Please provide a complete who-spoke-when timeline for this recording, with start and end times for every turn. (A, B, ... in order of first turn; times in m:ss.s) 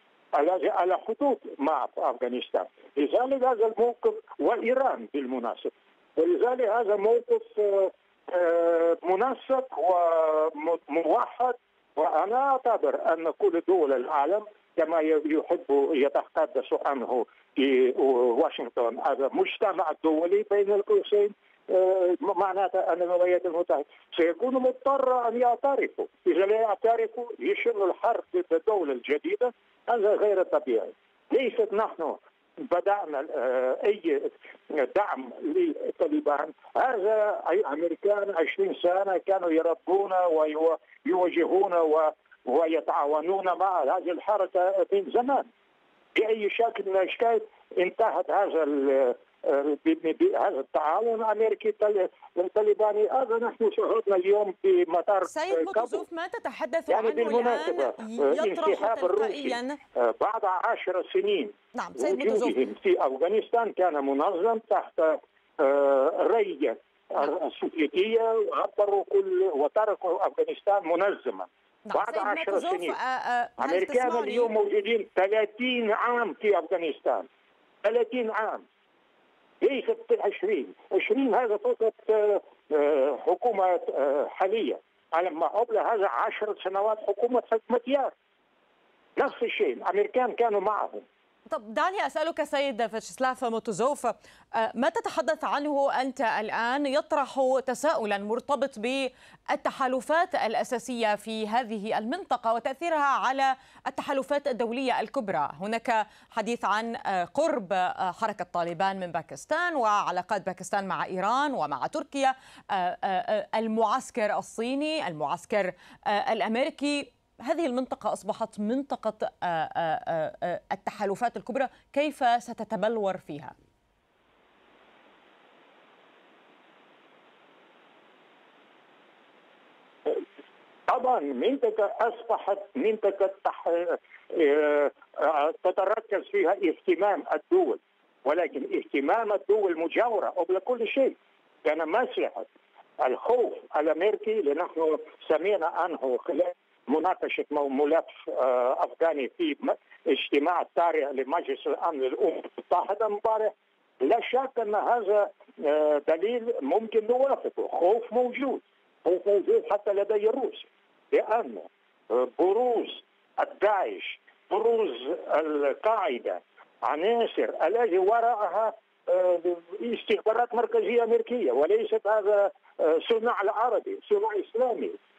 0:00.3-0:45.5 A
0:46.2-0:56.0 A
0:55.3-0:59.8 B
0:56.9-1:13.0 A
1:01.7-1:02.6 B
1:11.9-1:14.5 B
1:13.6-1:17.3 A
1:17.8-1:18.6 A
1:19.6-1:28.1 A
1:29.2-1:31.0 A
1:31.5-2:03.6 B
2:10.9-2:22.5 A
2:23.0-2:55.0 A